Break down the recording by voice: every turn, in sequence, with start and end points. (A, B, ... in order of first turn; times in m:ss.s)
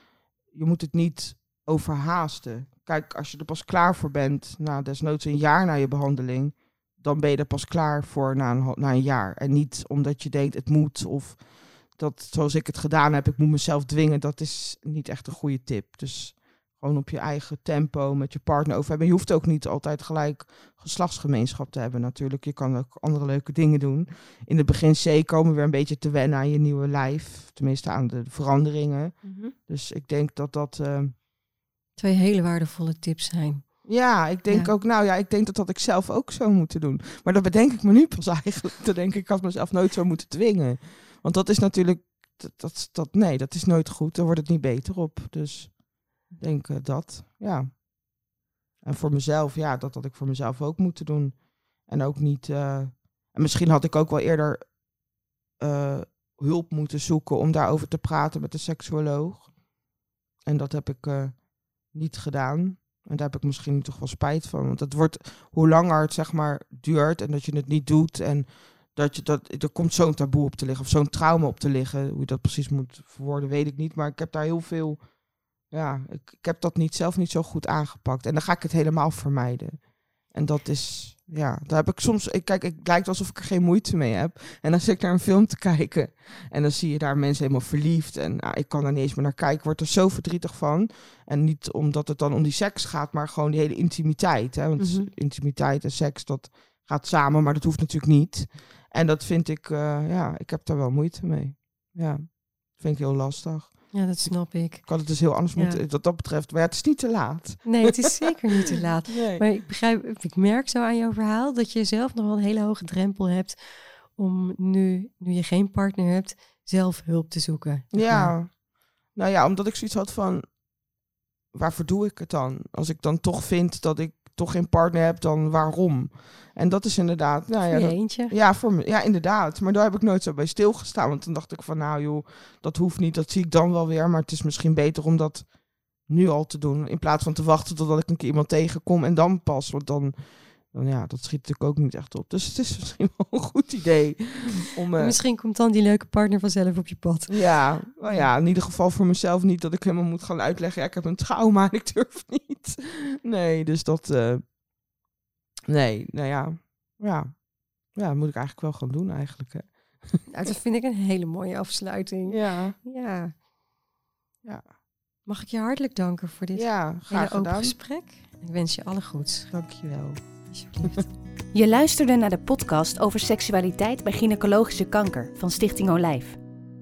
0:00.4-0:31.1 A
0:29.2-0:29.5 B
0:32.0-0:33.9 B
0:33.8-0:47.8 A
0:34.5-0:34.7 B
0:48.8-0:54.8 A
0:55.6-0:59.5 A
1:00.4-1:15.0 A
1:15.7-1:48.1 A
1:34.8-1:35.1 B
1:43.9-1:45.8 B
1:47.6-1:58.3 B
1:49.0-1:49.5 A
1:57.9-1:58.6 A
1:59.1-2:00.4 A
2:01.5-2:15.5 A
2:07.6-2:08.3 B
2:16.0-2:25.2 A
2:24.9-2:28.3 B
2:27.3-2:34.4 A
2:35.7-2:37.4 A
2:37.9-2:40.2 A
2:40.3-2:43.4 B
2:42.2-2:42.8 A
2:45.2-2:49.5 B
2:46.5-2:47.8 A
2:49.5-2:50.2 A
2:50.5-2:51.1 B
2:51.5-2:56.4 C